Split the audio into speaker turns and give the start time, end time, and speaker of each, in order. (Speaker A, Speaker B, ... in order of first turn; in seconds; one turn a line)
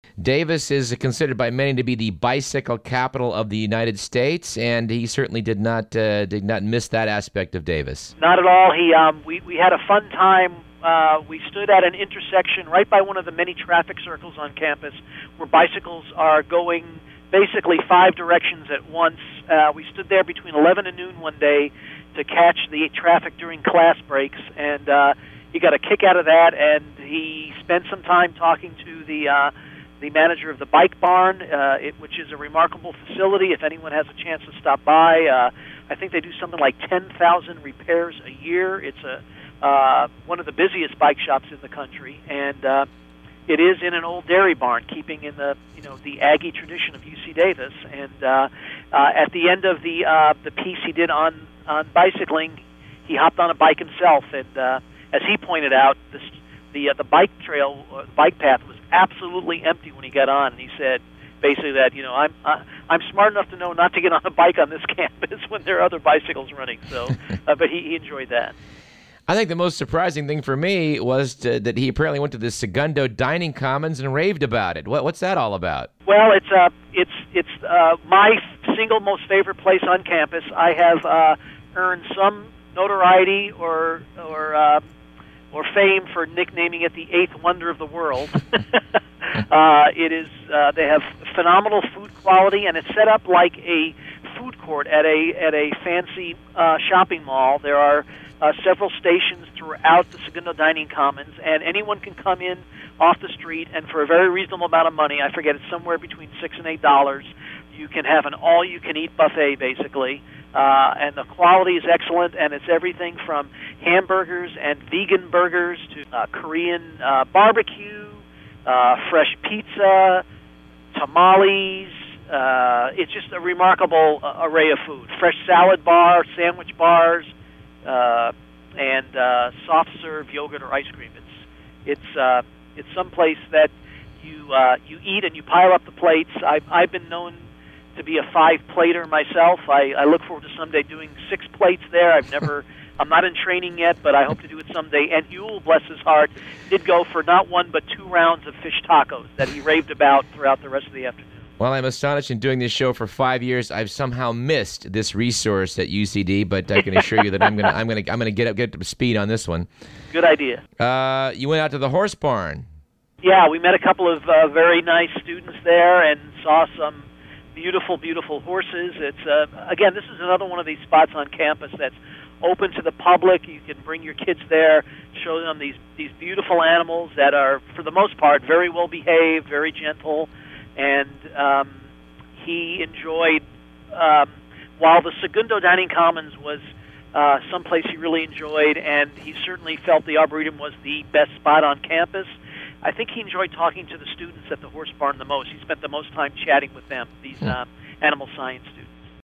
Speaker A: 0.2-8.1
Speaker B: 8.2-42.9
Speaker B: 43.5-68.5
Speaker A: 69.3-75.9
Speaker B: 76.0-84.8
Speaker B: 85.5-120.2
Speaker B: 120.9-127.3
Speaker B: 127.8-137.4
Speaker B: 137.9-151.4
Speaker A: 151.6-159.7
Speaker B: 156.8-157.5
Speaker B: 160.1-160.6
Speaker A: 160.8-162.6
Speaker B: 163.2-181.8
Speaker B: 182.3-198.9